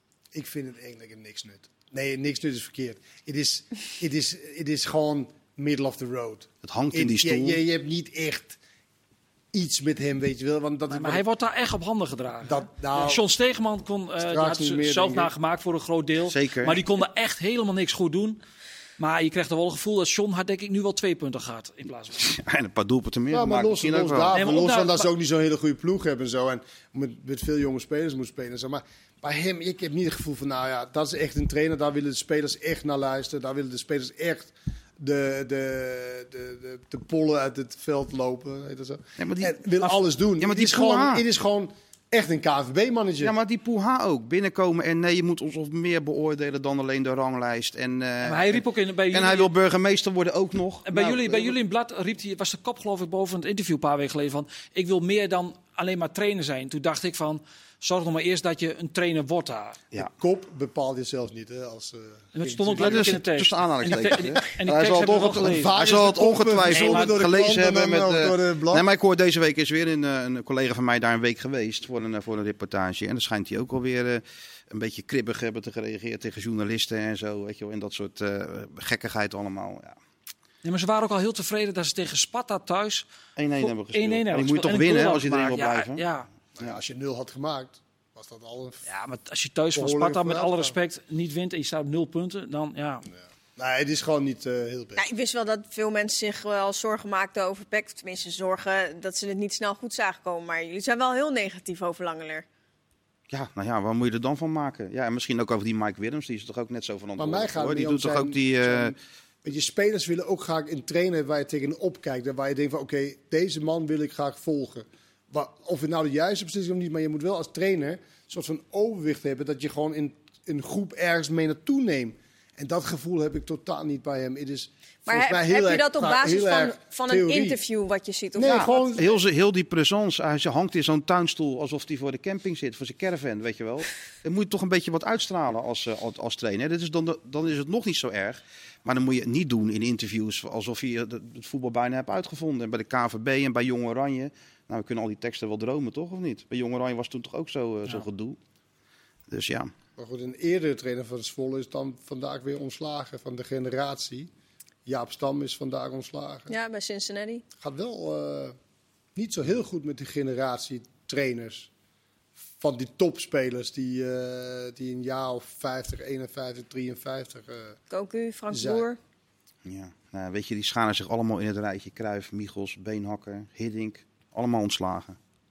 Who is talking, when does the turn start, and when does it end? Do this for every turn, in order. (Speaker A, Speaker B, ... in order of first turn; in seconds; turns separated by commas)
Speaker A: 0.3-8.6, Speaker B: 6.6-7.6, Speaker A: 9.5-11.2, Speaker C: 10.9-18.4, Speaker A: 12.4-13.3, Speaker A: 14.2-15.3, Speaker B: 16.3-16.8, Speaker C: 19.0-22.3, Speaker B: 22.2-24.4, Speaker A: 23.3-43.4, Speaker C: 24.3-25.1, Speaker B: 39.2-39.6, Speaker B: 40.4-41.2, Speaker B: 43.2-51.5, Speaker C: 48.2-49.5, Speaker C: 50.9-59.8, Speaker A: 59.9-63.2, Speaker C: 62.3-65.8, Speaker B: 62.7-80.0, Speaker A: 65.4-68.8, Speaker C: 66.7-67.1, Speaker C: 80.6-86.3, Speaker B: 83.4-86.1, Speaker A: 86.6-88.8, Speaker C: 88.9-93.1, Speaker A: 89.7-90.8, Speaker A: 93.6-95.0, Speaker D: 95.0-102.5, Speaker B: 103.3-108.9, Speaker A: 107.2-127.6, Speaker D: 125.1-129.0, Speaker A: 128.4-129.2, Speaker B: 128.4-148.4, Speaker B: 149.3-149.7, Speaker A: 150.0-154.3, Speaker A: 154.9-156.5, Speaker D: 156.5-157.4, Speaker A: 157.6-158.6, Speaker A: 159.2-161.7, Speaker A: 162.6-167.8, Speaker D: 167.9-169.0, Speaker A: 168.5-168.9, Speaker B: 169.7-175.2